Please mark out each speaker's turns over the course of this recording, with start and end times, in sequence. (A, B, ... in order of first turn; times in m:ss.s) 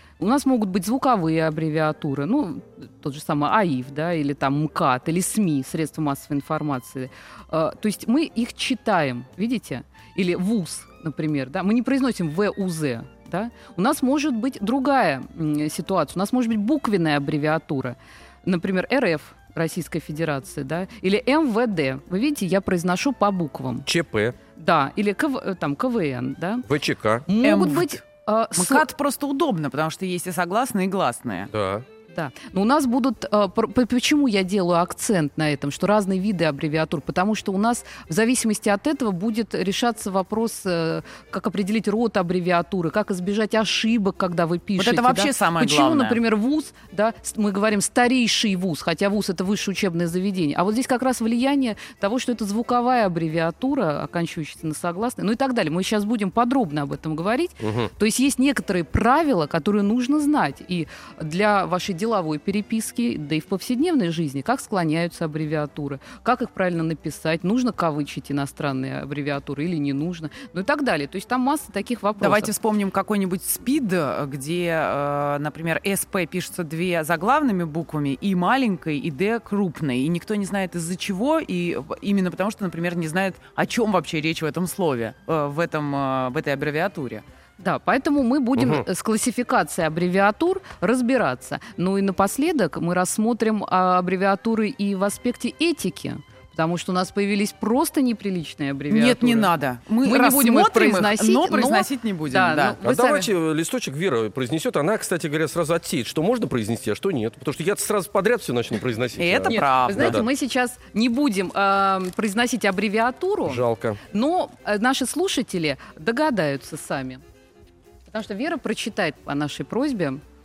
0:00.2-0:23.9 A
0:23.9-0:24.4 B
0:24.6-0:26.6 A
0:26.7-0:27.2 B
0:27.3-0:28.8 A
0:27.4-0:28.0 C
0:28.6-0:31.5 C
0:31.5-0:31.9 B
0:32.1-1:12.5 A
0:44.8-0:46.2 C
0:57.6-0:57.9 B
1:12.2-1:27.2 C
1:27.6-1:39.5 A
1:28.6-1:28.8 B
1:38.9-1:42.8 C
1:40.0-1:43.3 A
1:42.8-1:50.3 B
1:49.2-1:50.2 C
1:49.5-1:57.2 A
1:53.4-1:54.0 B
1:58.1-2:00.2 A